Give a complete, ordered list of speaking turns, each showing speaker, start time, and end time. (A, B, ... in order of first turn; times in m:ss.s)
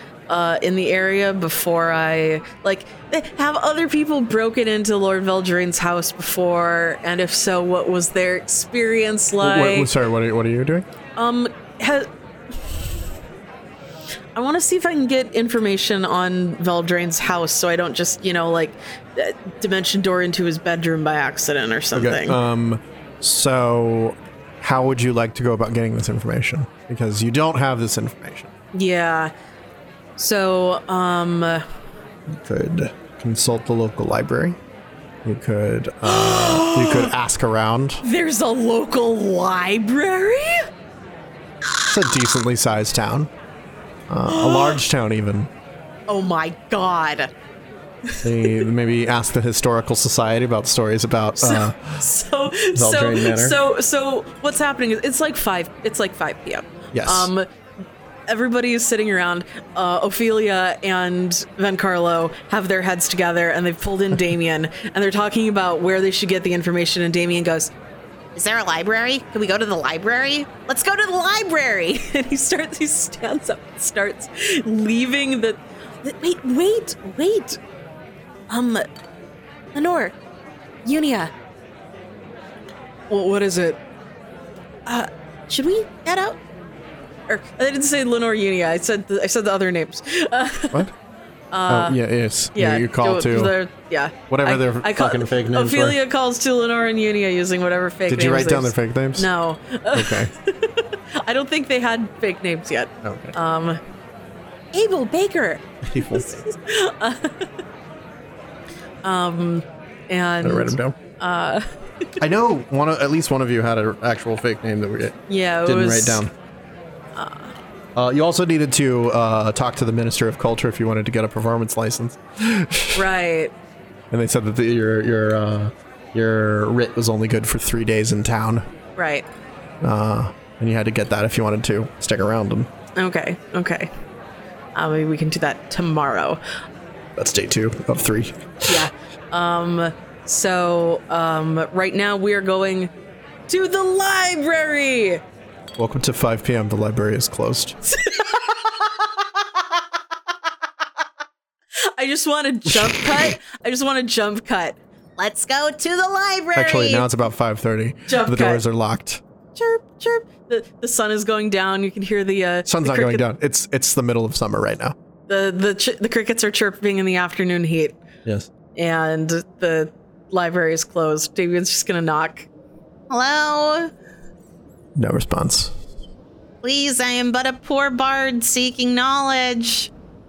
0:00.3-0:09.9 A
0:09.4-0:10.9 B
0:11.2-0:12.1 A
0:14.4-0:22.4 A
0:21.9-0:28.5 B
0:28.7-0:29.3 A
0:30.2-0:31.6 A
0:32.3-0:34.6 B
0:35.2-0:38.0 B
0:36.0-0:37.1 A
0:38.0-0:40.7 A
0:41.8-0:43.3 B
0:44.1-0:45.5 B
0:44.3-0:44.8 A
0:46.1-0:47.3 A
0:48.1-0:48.6 A
0:48.2-0:52.0 B
0:51.4-0:57.5 A
0:52.7-0:53.6 B
0:56.9-0:57.3 B
0:58.3-1:07.7 A
1:08.4-1:10.6 C
1:10.6-1:17.6 A
1:18.5-1:18.9 A
1:19.7-1:20.2 A
1:20.8-1:21.3 A
1:23.1-1:23.8 A
1:24.9-1:26.4 A
1:27.3-1:30.9 A
1:31.5-1:32.0 A
1:31.7-1:33.5 B
1:32.5-1:43.8 A
1:34.3-1:36.0 B
1:38.1-1:39.3 B
1:39.9-1:40.3 B
1:43.0-1:43.4 B
1:44.7-1:47.5 A
1:45.8-1:46.4 B
1:49.0-1:51.7 A
1:50.4-1:51.0 B
1:52.2-1:56.3 B
1:55.3-1:56.2 A
1:57.2-1:57.5 A
1:58.0-2:03.0 B
2:03.0-2:03.5 A
2:04.1-2:08.6 B
2:09.0-2:09.3 A
2:09.8-2:12.7 B
2:13.0-2:13.9 A
2:14.7-2:16.4 A
2:17.2-2:18.9 B
2:18.7-2:22.9 A
2:23.5-2:25.2 A
2:25.8-2:27.8 B
2:27.9-2:28.9 A
2:31.8-2:34.8 A
2:32.7-2:33.3 B
2:35.2-2:37.0 C
2:36.6-2:39.2 B
2:38.1-2:38.6 A
2:39.6-2:43.2 A
2:42.7-2:45.0 B
2:45.3-2:48.0 A
2:48.2-2:48.5 B
2:48.7-2:52.5 A
2:53.1-2:53.9 C
2:55.0-2:55.7 B
2:56.6-2:59.9 C